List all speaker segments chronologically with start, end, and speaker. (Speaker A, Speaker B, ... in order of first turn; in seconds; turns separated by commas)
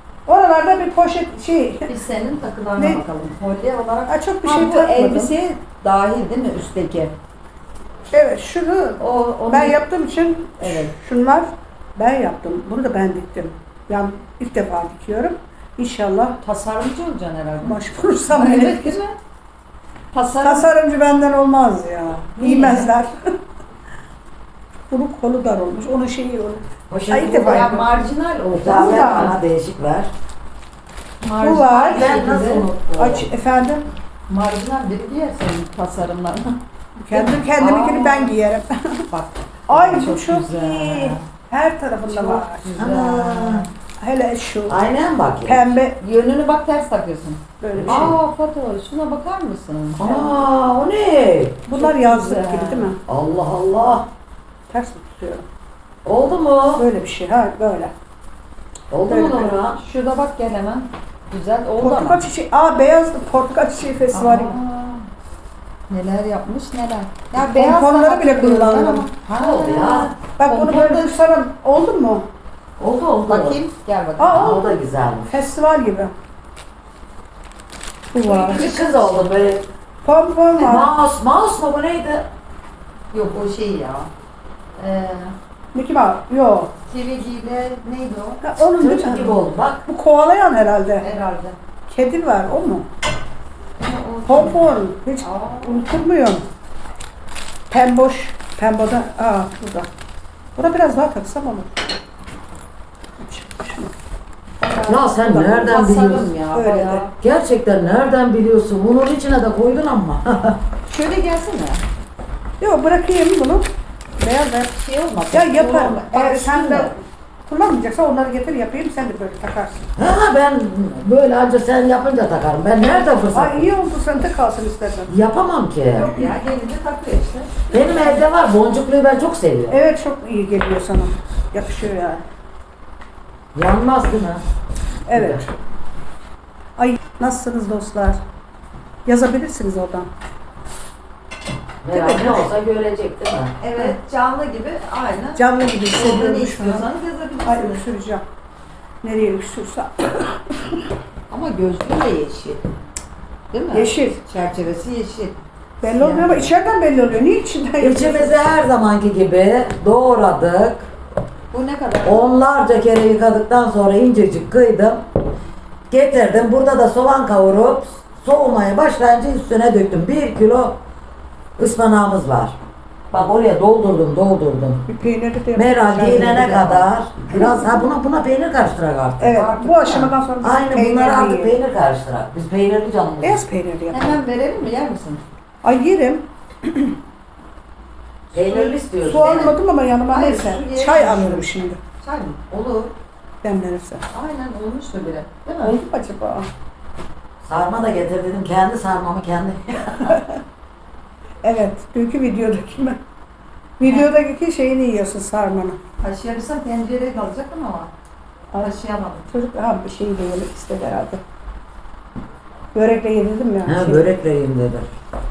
Speaker A: 0.3-1.9, Speaker B: 1.9-7.1, Speaker A: 2.8-3.0, Speaker A: 4.1-5.3, Speaker A: 8.1-16.4, Speaker B: 9.0-9.8, Speaker B: 10.6-10.9, Speaker B: 16.4-17.8, Speaker A: 17.6-19.0, Speaker B: 18.3-19.2, Speaker B: 20.1-20.7, Speaker A: 20.4-23.1, Speaker B: 22.4-22.9, Speaker A: 24.9-27.9, Speaker C: 26.9-27.9, Speaker B: 27.4-29.3, Speaker C: 28.5-30.1, Speaker A: 28.6-29.4, Speaker B: 31.2-32.7, Speaker A: 31.4-32.2, Speaker C: 31.7-33.3, Speaker A: 33.0-33.9, Speaker B: 34.3-36.6, Speaker A: 37.0-39.0, Speaker B: 37.1-38.3, Speaker B: 39.1-41.3, Speaker A: 39.7-42.7, Speaker B: 42.1-43.7, Speaker C: 42.8-43.6, Speaker A: 44.0-44.8, Speaker C: 44.7-45.7, Speaker A: 45.5-46.0, Speaker B: 46.0-50.3, Speaker A: 47.6-48.1, Speaker C: 47.7-48.2, Speaker C: 50.0-51.6, Speaker A: 51.7-53.0, Speaker B: 51.7-52.9, Speaker C: 53.1-54.1, Speaker A: 54.7-55.5, Speaker C: 56.0-56.9, Speaker A: 56.8-57.9, Speaker C: 58.9-59.8, Speaker A: 59.1-59.6, Speaker B: 59.7-62.2, Speaker A: 61.8-64.6, Speaker B: 64.1-65.1, Speaker B: 65.9-71.2, Speaker A: 67.4-69.1, Speaker C: 69.3-70.1, Speaker A: 70.4-72.2, Speaker C: 72.8-73.6, Speaker B: 73.3-74.6, Speaker A: 74.2-74.7, Speaker C: 74.3-75.3, Speaker A: 75.3-76.1, Speaker A: 78.1-78.6, Speaker B: 78.2-79.2, Speaker C: 78.4-79.7, Speaker A: 80.0-80.9, Speaker C: 80.6-82.3, Speaker B: 83.1-84.1, Speaker B: 84.8-85.3, Speaker A: 85.7-86.7, Speaker B: 86.9-88.4, Speaker A: 88.4-91.1, Speaker C: 88.8-89.8, Speaker B: 91.0-91.6, Speaker A: 91.9-92.9, Speaker B: 93.8-96.0, Speaker A: 94.3-96.5, Speaker A: 97.7-99.9, Speaker A: 100.6-101.9, Speaker A: 103.2-103.9, Speaker B: 104.6-107.1, Speaker C: 104.9-106.3, Speaker A: 106.5-107.0, Speaker C: 107.2-110.6, Speaker B: 110.9-111.8, Speaker A: 112.6-113.7, Speaker A: 114.2-114.7, Speaker B: 114.8-116.9, Speaker A: 115.3-119.9, Speaker C: 120.0-123.7, Speaker A: 123.3-125.1, Speaker C: 125.1-126.3, Speaker B: 126.0-128.2, Speaker C: 127.7-129.8, Speaker A: 129.7-132.2, Speaker C: 133.6-134.4, Speaker A: 135.1-135.5, Speaker C: 135.1-135.4, Speaker A: 136.8-138.2, Speaker A: 139.1-140.1, Speaker C: 141.8-143.5, Speaker A: 141.9-142.5, Speaker B: 143.6-147.8, Speaker A: 145.4-146.9, Speaker A: 147.4-148.2, Speaker A: 149.0-150.9, Speaker B: 151.3-152.6, Speaker B: 153.5-156.5, Speaker A: 153.7-154.2, Speaker A: 155.8-158.3, Speaker C: 157.8-160.9, Speaker B: 161.5-162.3, Speaker C: 162.1-165.0, Speaker C: 165.9-170.8, Speaker C: 171.6-172.6, Speaker C: 173.1-174.9, Speaker A: 174.9-176.7, Speaker C: 175.6-179.4, Speaker B: 176.1-176.9, Speaker A: 177.3-177.7, Speaker A: 179.2-181.6, Speaker B: 179.3-180.1, Speaker C: 180.4-183.4, Speaker A: 183.2-184.2, Speaker B: 183.9-185.2, Speaker A: 185.6-186.9, Speaker C: 188.3-189.5, Speaker A: 188.5-191.8, Speaker B: 189.2-189.6, Speaker B: 190.1-191.5, Speaker B: 192.0-192.9, Speaker A: 193.4-194.1, Speaker B: 194.1-195.8, Speaker A: 195.6-196.5, Speaker C: 197.4-200.2, Speaker A: 201.4-203.0, Speaker A: 203.8-205.8, Speaker B: 206.0-207.9, Speaker B: 208.6-209.3, Speaker A: 209.3-211.2, Speaker A: 212.7-214.1, Speaker C: 213.7-214.9